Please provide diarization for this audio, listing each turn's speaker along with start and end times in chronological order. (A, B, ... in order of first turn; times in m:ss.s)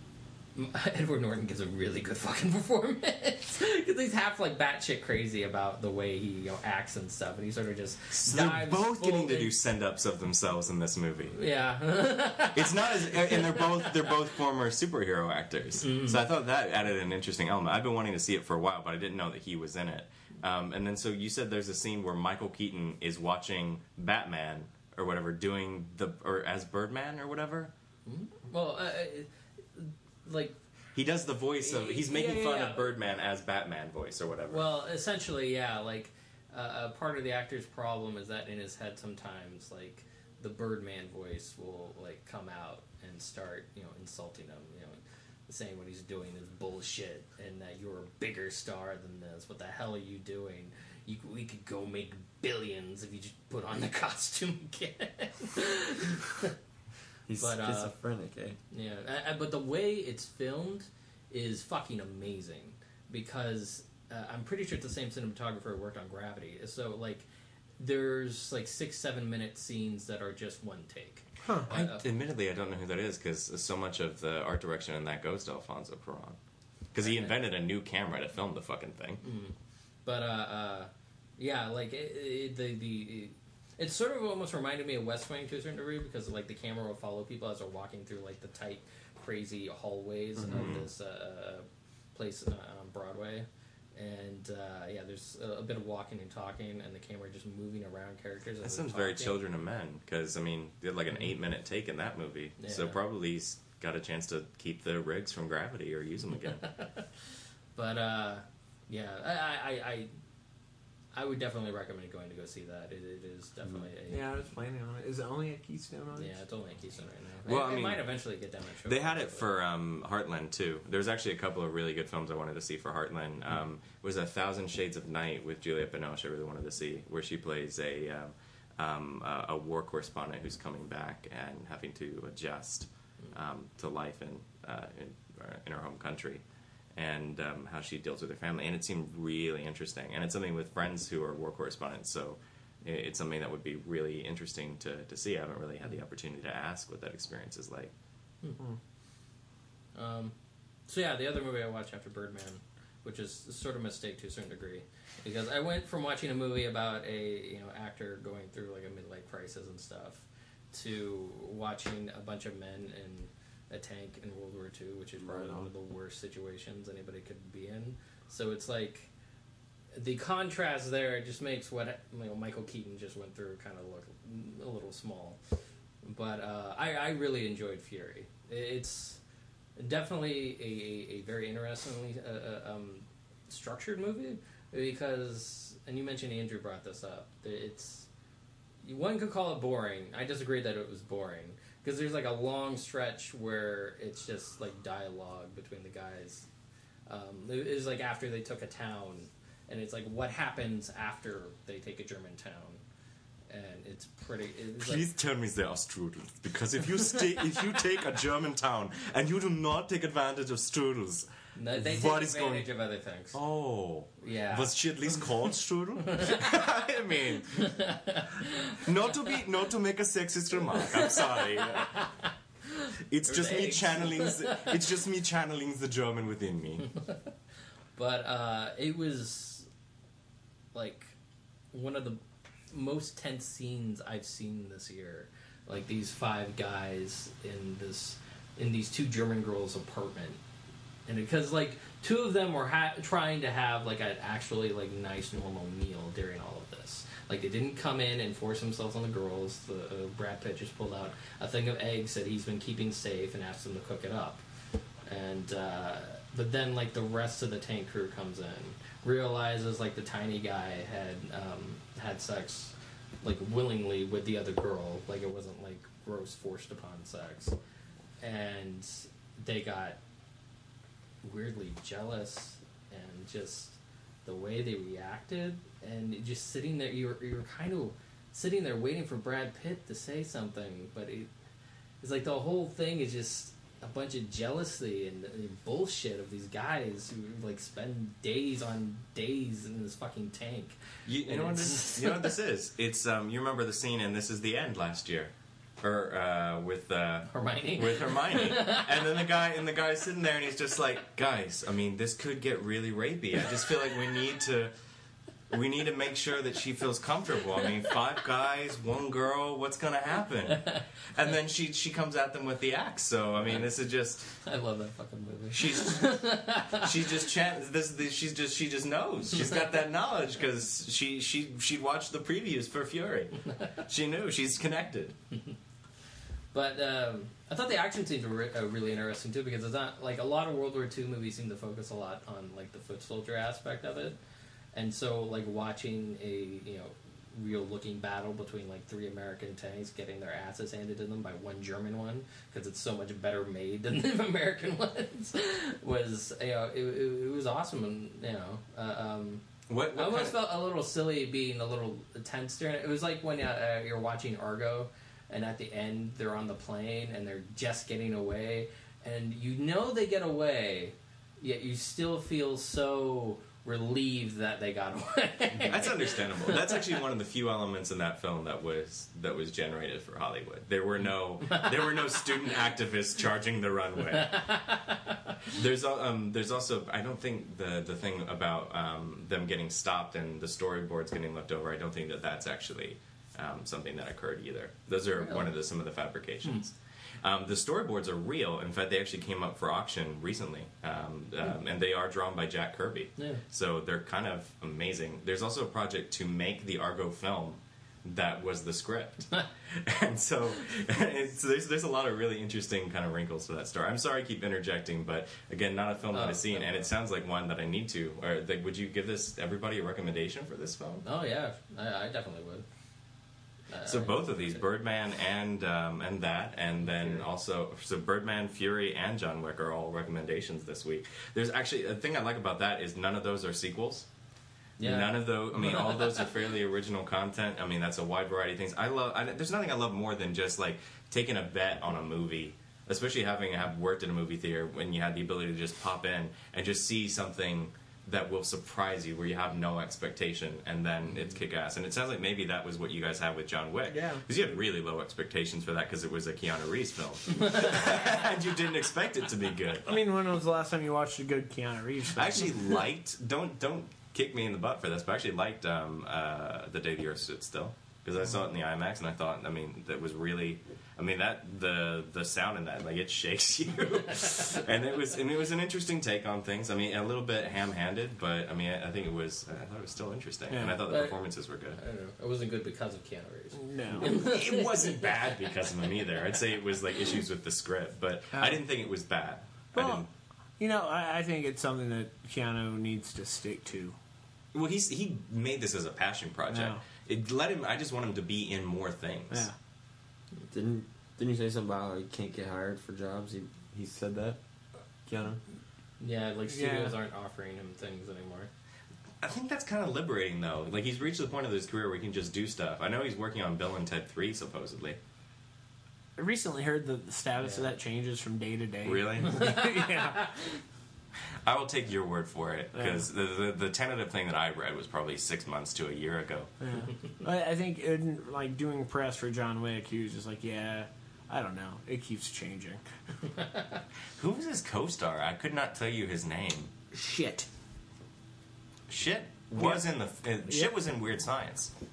0:00.6-0:09.5 A
0:08.1-0:11.4 B
0:11.3-0:14.1 A
0:12.5-0:27.7 B
0:15.8-0:16.2 A
0:28.1-0:30.6 A
0:31.0-0:34.6 B
0:31.6-0:32.9 A
0:34.5-0:56.5 A
0:57.3-0:58.6 C
0:57.4-0:58.0 A
0:58.7-1:07.3 A
1:07.8-1:12.1 A
1:11.7-1:16.4 B
1:16.9-1:19.2 B
1:17.0-1:17.4 A
1:19.2-1:39.4 A
1:30.4-1:30.7 C
1:30.5-1:30.9 B
1:38.6-1:46.7 B
1:42.6-1:43.0 A
1:46.7-1:47.0 A
1:47.8-1:50.1 A
1:51.1-1:54.3 A
1:54.1-1:56.4 D
1:56.2-1:59.5 A
1:57.5-1:58.0 B
1:58.9-2:16.4 B
2:17.0-2:27.9 B
2:30.0-2:30.3 A
2:30.9-2:49.1 A
2:45.2-2:45.7 C
2:49.9-2:55.4 A
2:56.0-2:59.2 A
2:59.8-3:08.1 A
3:08.8-3:16.5 A
3:17.1-3:22.8 A
3:23.5-3:25.0 A
3:24.8-3:32.7 B
3:31.6-3:33.4 A
3:33.3-3:37.8 B
3:34.2-3:35.2 A
3:36.1-3:36.4 A
3:37.6-3:38.8 A
3:38.8-3:42.1 B
3:40.7-3:42.3 A
3:43.1-3:46.9 B
3:43.2-3:44.9 A
3:48.0-3:49.7 A
3:50.7-3:51.2 A
3:51.7-3:52.2 A
3:52.7-4:00.4 A
4:01.1-4:14.4 A
4:15.0-4:27.6 A
4:28.2-4:30.0 A
4:31.2-4:41.3 A
4:42.0-4:52.4 A
4:51.1-5:04.7 B
4:57.3-4:59.2 A
5:05.5-5:14.3 B
5:13.4-5:13.7 A
5:14.4-5:17.2 A
5:15.5-5:25.2 B
5:26.5-5:34.2 A
5:34.7-5:49.4 A
5:49.7-5:50.4 B
5:50.0-6:07.0 A
6:05.5-6:14.4 B
6:11.4-6:12.6 A
6:14.1-6:15.2 A
6:15.5-6:51.0 B
6:25.2-6:25.5 A
6:46.1-6:46.8 A
6:51.0-6:52.6 A
6:53.7-6:54.6 A
6:53.9-7:04.1 B
6:56.8-6:57.3 A
7:04.8-7:06.3 A
7:04.8-7:29.9 B
7:23.9-7:24.2 D
7:29.9-7:32.5 D
7:32.1-7:51.8 B
7:50.5-7:50.8 D
7:50.9-7:51.2 A
7:51.8-7:55.2 A
7:53.5-7:54.1 D
7:54.0-8:00.1 B
7:58.3-7:58.6 D
7:59.7-8:00.0 D
8:00.6-8:04.0 D
8:04.5-8:09.5 B
8:06.5-8:06.8 D
8:09.3-8:09.6 D
8:10.5-8:14.4 C
8:15.1-8:15.4 C
8:16.0-8:18.5 A
8:16.5-8:17.0 D
8:19.2-8:25.0 B
8:26.2-8:30.3 D
8:27.4-8:27.7 A
8:28.8-8:29.6 B
8:29.4-8:30.6 A
8:31.5-8:36.5 B
8:32.8-8:33.0 D
8:36.6-8:42.8 D
8:44.2-8:46.7 B
8:46.9-8:47.5 D
8:48.9-8:51.7 B
8:49.6-8:49.9 D
8:50.5-8:50.7 D